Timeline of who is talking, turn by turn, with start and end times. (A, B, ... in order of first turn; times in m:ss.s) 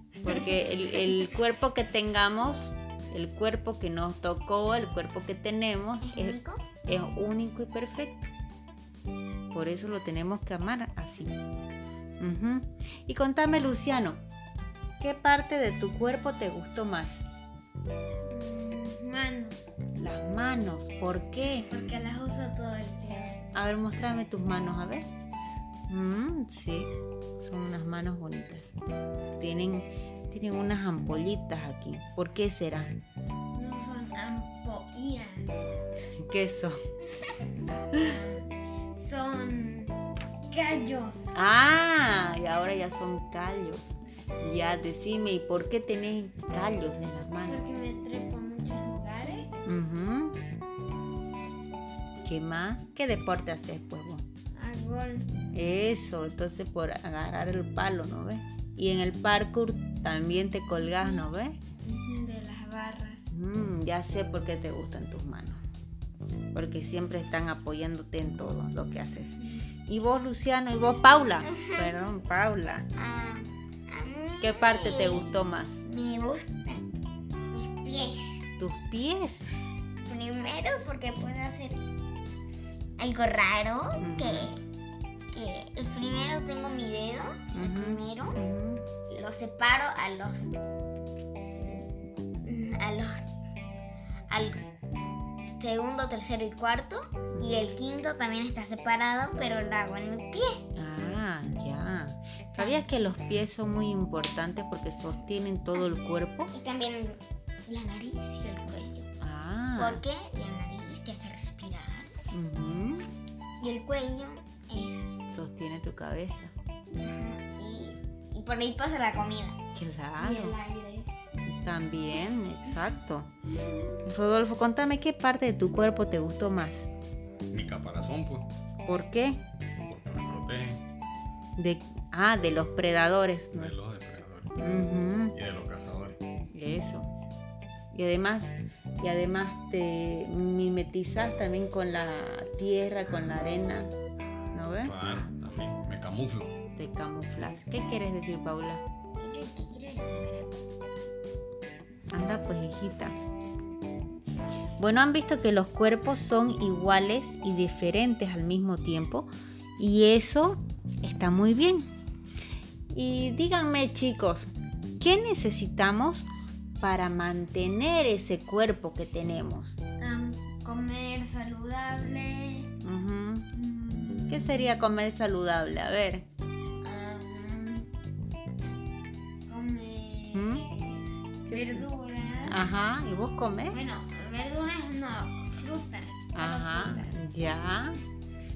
0:00.2-0:01.1 A
0:00.2-0:08.3 B
0:06.0-0:06.6 A
0:09.5-0:11.3 B
0:12.2-0:14.2 B
0:15.0-0:17.2 B
0:18.3-0:19.7 C
0:20.0-0:21.7 B
0:21.7-0:23.4 C
0:23.5-0:25.1 B
0:25.9-0:28.8 B
0:29.4-0:32.9 B
0:33.6-0:35.5 C
0:36.2-0:36.8 B
0:37.9-0:40.0 C
0:40.5-0:41.3 C
0:41.3-0:43.8 B
0:44.4-0:47.6 B
0:47.5-0:49.6 C
0:49.7-0:50.4 B
0:52.2-0:54.2 B
0:54.6-0:55.3 C
0:55.5-1:01.6 B
1:01.8-1:03.2 C
1:03.3-1:05.6 B
1:06.5-1:12.9 B
1:13.0-1:16.8 A
1:14.4-1:15.8 B
1:17.5-1:18.5 A
1:18.6-1:19.5 B
1:20.0-1:21.8 A
1:23.0-1:24.6 A
1:24.0-1:24.5 B
1:25.3-1:28.4 A
1:27.5-1:28.9 B
1:29.1-1:30.5 A
1:31.6-1:31.9 A
1:32.4-1:33.2 A
1:34.3-1:34.7 A
1:35.6-1:40.6 A
1:37.4-1:37.7 B
1:40.8-1:46.5 B
1:42.6-1:42.9 A
1:46.5-1:49.1 A
1:49.2-1:50.0 B
1:49.8-1:52.1 A
1:52.3-1:53.1 B
1:53.6-1:55.2 A
1:55.3-1:56.5 B
1:57.0-1:59.6 A
1:59.8-2:00.6 B
2:00.2-2:01.1 C
2:01.5-2:03.3 B
2:04.0-2:06.9 B
2:07.5-2:08.5 D
2:08.9-2:09.4 B
2:09.9-2:10.8 D
2:11.6-2:13.8 B
2:13.5-2:14.5 D
2:14.6-2:15.4 B
2:15.4-2:16.2 D
2:16.5-2:17.1 B
2:17.9-2:23.9 B
2:24.5-2:24.9 B
2:24.8-2:26.6 D
2:26.8-2:28.8 B
2:29.2-2:30.6 A
2:32.1-2:33.2 B
2:34.8-2:41.9 B
2:42.9-2:46.3 B
2:46.8-2:49.7 B
2:50.0-2:52.7 C
2:52.8-2:53.5 B
2:53.5-2:54.5 C
2:54.3-2:56.2 B
2:56.8-2:57.9 C
2:59.5-3:02.7 C
3:00.3-3:00.6 B
3:01.5-3:01.9 B
3:02.5-3:03.8 B
3:03.7-3:07.2 C
3:06.4-3:08.0 B